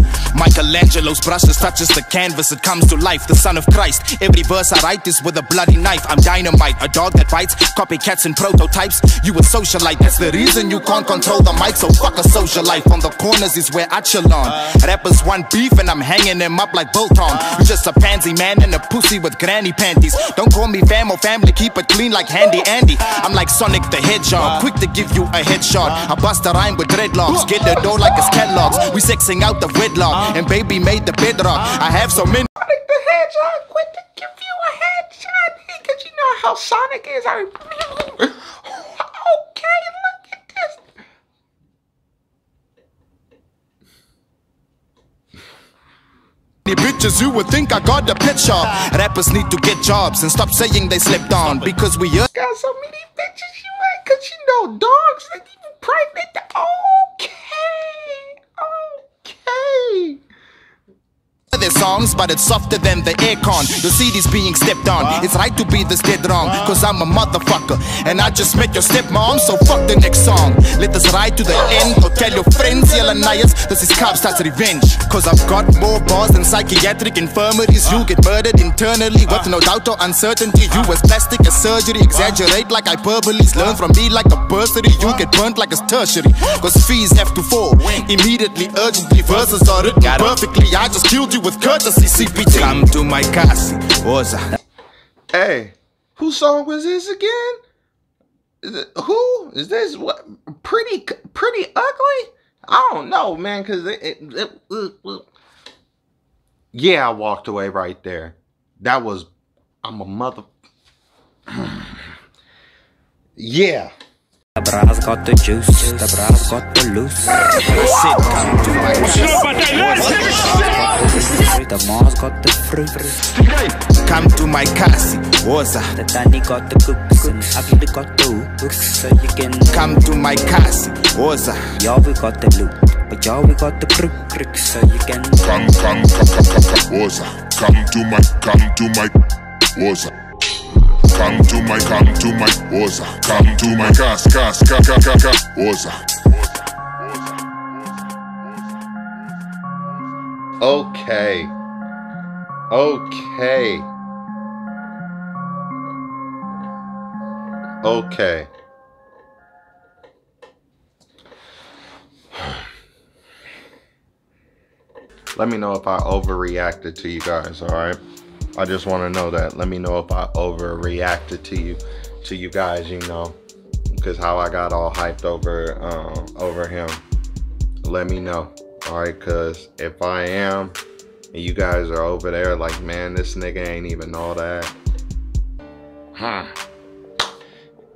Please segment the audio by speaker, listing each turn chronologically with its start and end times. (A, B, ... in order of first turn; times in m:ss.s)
0:00.3-0:32.5 A
0:32.6-0:40.8 B
0:46.7-0:52.3 A
0:52.3-1:00.2 B
1:01.5-1:34.4 A
1:35.3-1:37.6 B
1:38.6-1:45.3 B
1:46.7-1:49.3 B
1:49.8-1:50.5 B
1:51.5-1:52.1 B
1:53.4-1:53.9 B
1:54.6-1:57.7 C
1:57.6-2:00.8 A
2:00.5-2:03.3 C
2:04.0-2:05.9 A
2:05.9-2:09.8 C
2:09.7-2:11.6 A
2:11.8-2:15.4 C
2:15.4-2:19.2 D
2:19.8-2:20.1 D
2:21.1-2:26.5 D
2:27.0-2:27.4 D
2:30.6-2:31.5 B
2:32.7-2:33.9 B
2:37.8-2:38.5 B
2:42.3-2:42.7 B
2:45.4-2:48.0 B
2:48.6-2:53.4 B
2:53.9-2:57.0 B
2:57.8-3:00.8 B
3:01.3-3:04.8 B
3:06.2-3:06.6 B